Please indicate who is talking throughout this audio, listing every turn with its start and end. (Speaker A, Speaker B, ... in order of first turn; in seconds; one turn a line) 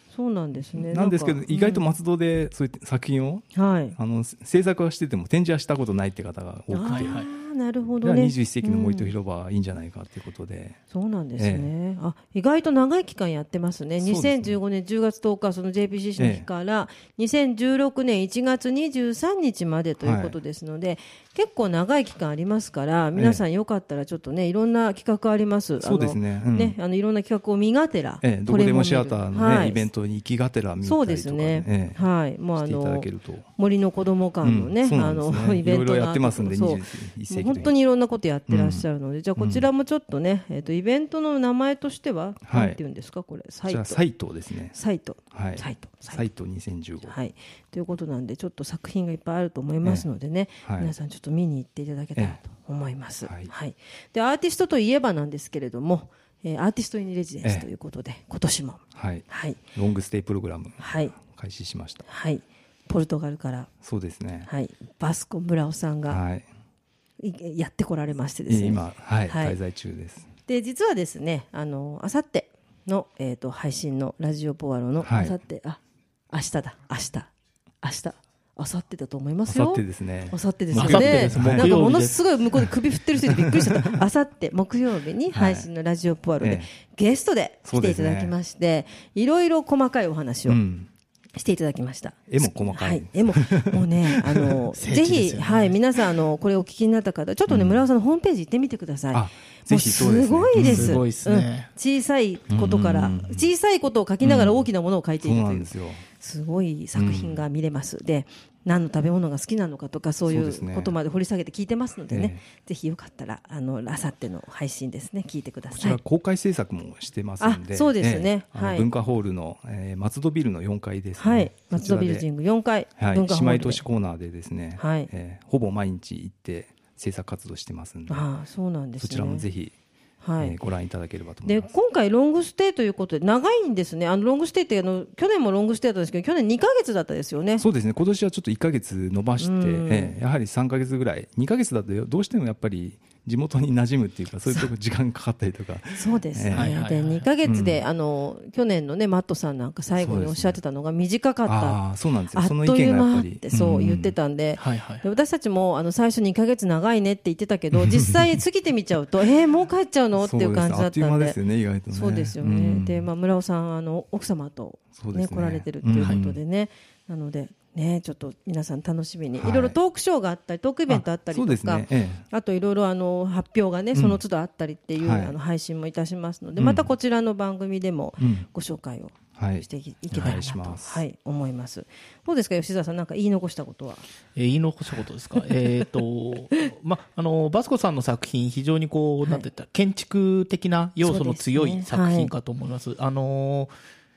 Speaker A: 0.1-1.9
Speaker B: 0.7-7.2
Speaker A: 3.5-4.0
Speaker A: 6.7-9.1
Speaker C: 6.9-7.3
Speaker B: 8.0-10.8
Speaker A: 10.9-29.9
Speaker B: 11.4-11.7
Speaker B: 14.0-14.6
Speaker B: 16.2-16.5
Speaker B: 20.0-20.4
Speaker B: 23.1-23.4
Speaker B: 25.8-26.8
Speaker B: 28.2-32.0
Speaker A: 30.8-44.0
Speaker B: 32.5-33.5
Speaker B: 34.4-37.7
Speaker B: 38.5-38.9
Speaker B: 39.4-39.7
Speaker B: 42.4-42.8
Speaker B: 43.6-44.8
Speaker A: 44.7-46.2
Speaker B: 45.3-47.1
Speaker A: 47.0-59.6
Speaker B: 50.6-50.9
Speaker B: 53.2-53.5
Speaker B: 58.9-62.0
Speaker A: 60.8-61.1
Speaker A: 62.0-63.7
Speaker B: 63.8-64.5
Speaker A: 64.5-66.2
Speaker B: 66.1-66.5
Speaker A: 67.2-69.6
Speaker B: 68.5-70.3
Speaker A: 70.5-75.8
Speaker B: 75.0-75.3
Speaker A: 76.3-77.3
Speaker A: 77.8-90.6
Speaker B: 79.5-81.7
Speaker C: 80.8-82.2
Speaker B: 83.4-83.8
Speaker B: 85.3-85.7
Speaker B: 86.4-86.7
Speaker B: 87.6-88.3
Speaker B: 90.5-90.9
Speaker A: 91.3-116.0
Speaker B: 92.3-94.6
Speaker C: 94.8-95.8
Speaker B: 97.5-97.8
Speaker B: 99.1-101.0
Speaker C: 100.5-101.7
Speaker B: 102.5-103.5
Speaker B: 104.2-104.6
Speaker B: 105.2-106.0
Speaker B: 106.9-107.4
Speaker B: 110.3-110.9
Speaker B: 112.1-112.4
Speaker B: 115.7-122.3
Speaker A: 117.4-118.9
Speaker A: 121.2-123.8
Speaker B: 123.0-128.3
Speaker A: 124.8-125.1
Speaker A: 128.1-129.5
Speaker B: 129.0-129.8
Speaker A: 130.2-130.6
Speaker B: 130.4-131.7
Speaker A: 131.4-137.7
Speaker B: 137.6-146.8
Speaker A: 139.4-140.1
Speaker A: 145.9-161.4
Speaker C: 146.5-147.2
Speaker B: 147.4-147.8
Speaker B: 149.9-150.6
Speaker B: 151.4-154.1
Speaker C: 154.6-155.0
Speaker B: 157.7-158.4
Speaker B: 160.2-163.1
Speaker A: 161.9-184.1
Speaker B: 164.9-166.3
Speaker C: 166.0-166.3
Speaker B: 169.4-169.8
Speaker B: 170.9-172.2
Speaker B: 173.9-174.2
Speaker B: 175.0-175.3
Speaker B: 176.6-176.9
Speaker B: 178.2-178.5
Speaker B: 179.4-181.0
Speaker C: 184.4-193.7
Speaker A: 191.0-192.3